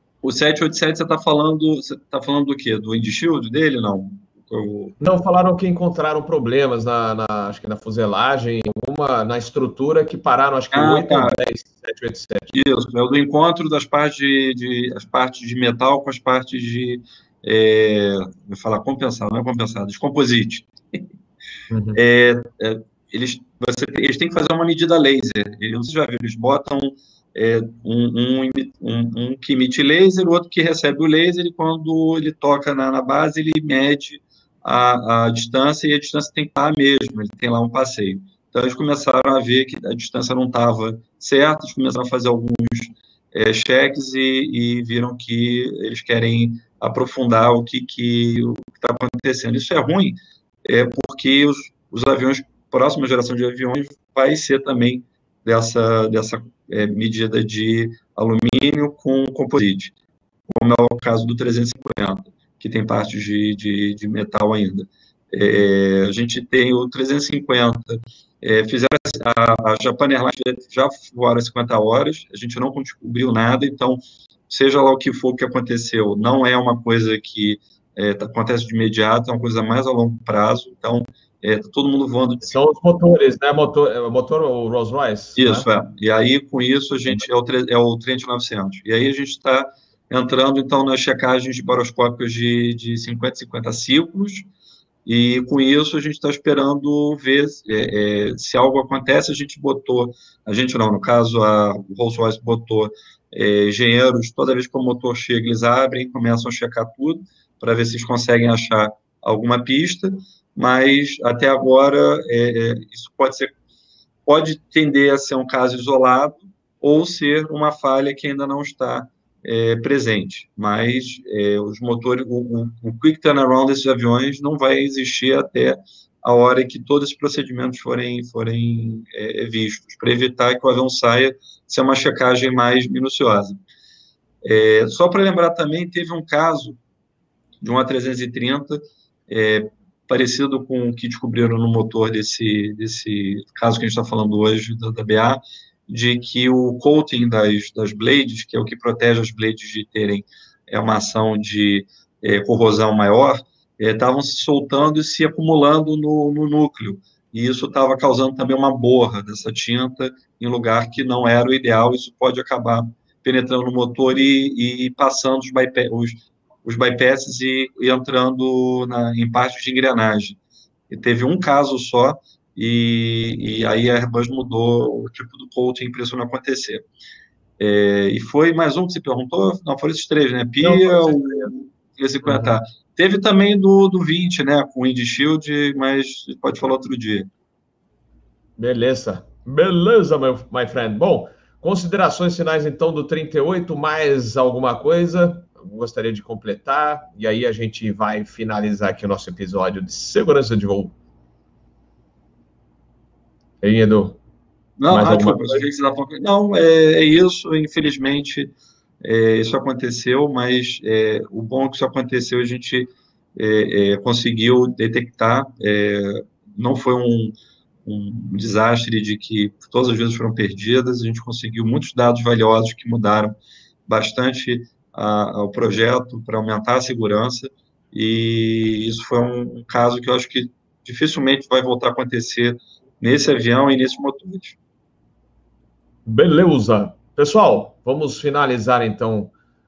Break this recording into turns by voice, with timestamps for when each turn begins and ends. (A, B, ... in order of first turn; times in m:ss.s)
0:00.2-0:05.0 A
0:05.0-0:12.5 B
0:10.7-0:11.3 A
0:12.5-0:21.0 A
0:21.7-0:22.0 B
0:21.9-1:00.0 A
1:00.5-1:22.5 A
1:22.4-1:25.7 B
1:25.4-1:34.5 A
1:35.0-1:53.5 A
1:54.3-2:13.6 A
2:14.4-2:16.8 A
2:17.6-2:50.4 A
2:50.9-2:56.9 A
2:57.6-3:07.3 A
3:00.6-3:01.5 B
3:02.2-3:02.6 B
3:08.6-3:20.9 B
3:23.6-3:24.2 B
3:24.8-3:54.6 A
3:24.9-3:25.7 B
3:56.1-3:59.3 B